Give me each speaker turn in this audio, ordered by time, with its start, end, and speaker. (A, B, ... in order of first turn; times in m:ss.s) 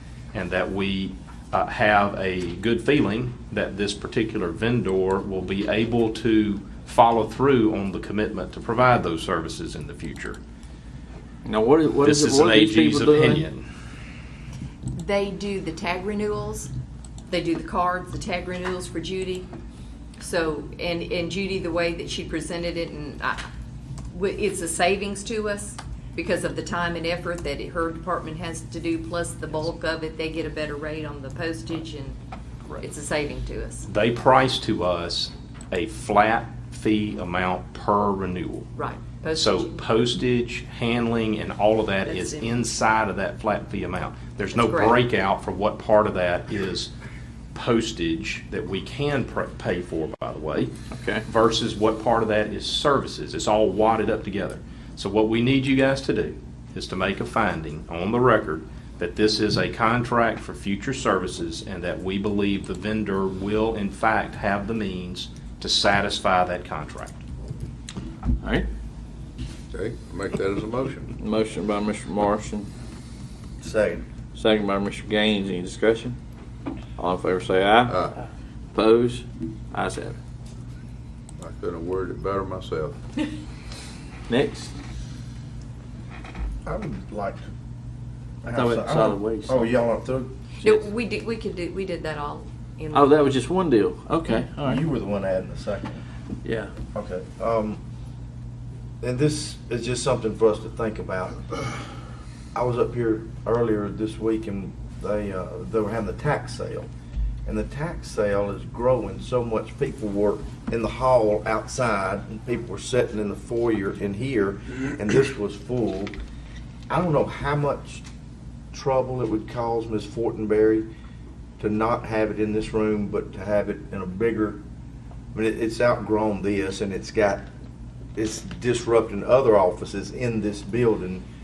0:00.3-0:10.4 A
0:11.4-0:13.4 B
0:12.0-0:13.6 A
0:15.0-0:16.7 C
0:17.3-0:19.5 C
0:20.2-0:23.4 C
0:24.1-0:32.2 C
0:32.8-0:33.8 C
0:33.8-0:38.7 A
0:38.7-0:39.8 C
0:39.4-0:46.9 A
0:42.0-0:42.5 C
0:44.6-0:45.0 C
0:47.5-0:50.7 A
0:50.9-0:51.2 B
0:51.3-1:07.2 A
1:08.4-1:08.6 B
1:09.7-1:11.1 D
1:11.2-1:12.7 B
1:13.6-1:14.0 E
1:14.3-1:16.2 B
1:17.0-1:18.1 B
1:17.8-1:18.1 D
1:18.7-1:20.2 B
1:21.4-1:23.0 D
1:24.3-1:24.7 B
1:26.6-1:27.5 E
1:28.4-1:30.3 E
1:28.5-1:29.7 B
1:30.6-1:33.1 C
1:32.9-1:34.8 B
1:34.3-1:36.0 E
1:36.4-1:36.7 B
1:36.9-1:37.8 E
1:39.0-1:41.4 E
1:42.5-1:46.9 E
1:47.4-1:56.1 E
1:56.9-1:58.0 E
1:58.7-2:00.9 E
2:01.6-2:04.6 E
2:05.3-2:07.5 E
2:08.2-2:11.2 E